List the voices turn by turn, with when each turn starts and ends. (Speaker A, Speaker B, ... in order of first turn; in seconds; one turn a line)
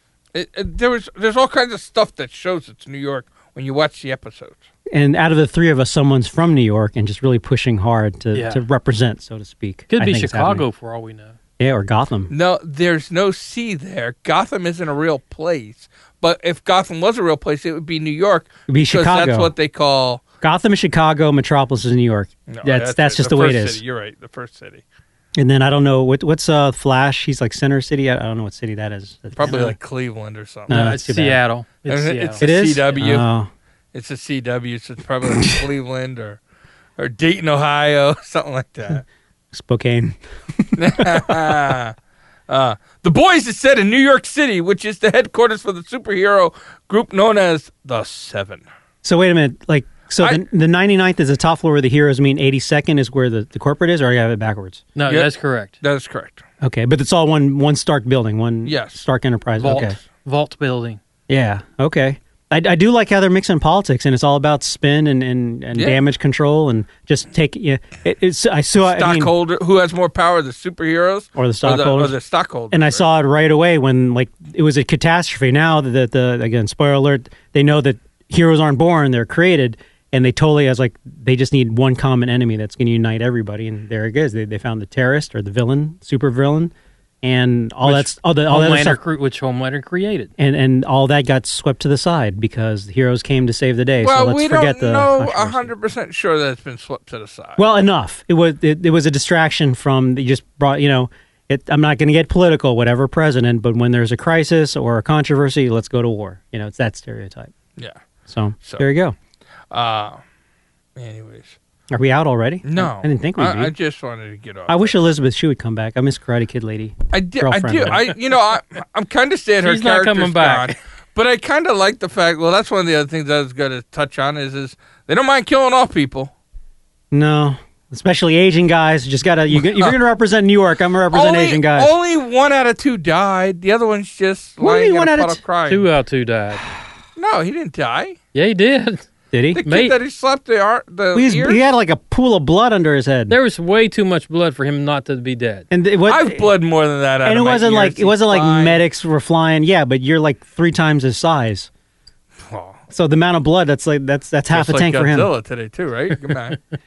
Speaker A: 0.3-4.6
Speaker B: 4.9-10.6
Speaker C: 8.3-8.6
Speaker C: 9.9-11.3
Speaker B: 11.6-12.3
Speaker A: 12.3-20.2
Speaker B: 18.7-19.5
Speaker B: 20.4-23.8
Speaker A: 22.5-24.8
Speaker B: 25.4-29.8
Speaker A: 29.4-30.9
Speaker B: 30.7-31.4
Speaker C: 30.7-32.4
Speaker A: 31.9-33.3
Speaker B: 32.4-33.5
Speaker A: 33.9-36.4
Speaker B: 35.3-35.6
Speaker A: 37.0-39.0
Speaker B: 39.5-41.8
Speaker A: 40.8-41.9
Speaker A: 42.5-48.6
Speaker B: 49.0-54.9
Speaker C: 55.0-55.7
Speaker A: 55.1-56.4
Speaker B: 56.6-60.0
Speaker A: 58.7-59.0
Speaker C: 59.6-61.0
Speaker B: 61.3-69.3
Speaker A: 65.8-66.0
Speaker A: 68.8-73.0
Speaker B: 71.4-72.2
Speaker B: 72.7-89.0
Speaker C: 87.8-90.3
Speaker B: 90.4-95.7
Speaker A: 94.0-97.6
Speaker B: 97.6-107.5
Speaker B: 108.3-109.2
Speaker A: 109.7-110.2
Speaker A: 111.0-111.6
Speaker B: 111.9-113.7
Speaker A: 112.6-114.9
Speaker B: 114.7-118.1
Speaker A: 117.1-126.3
Speaker C: 119.6-120.8
Speaker B: 127.1-131.9
Speaker A: 129.6-129.9
Speaker A: 131.1-135.9
Speaker B: 134.6-135.4
Speaker C: 135.7-136.6
Speaker A: 137.2-138.2
Speaker C: 138.3-139.1
Speaker B: 139.3-139.6
Speaker A: 139.6-141.6
Speaker C: 139.6-140.0
Speaker B: 141.1-143.4
Speaker C: 143.3-145.7
Speaker B: 145.7-146.5
Speaker A: 146.1-148.8
Speaker B: 147.2-151.7
Speaker A: 152.4-152.8
Speaker B: 152.9-155.3
Speaker A: 154.5-156.6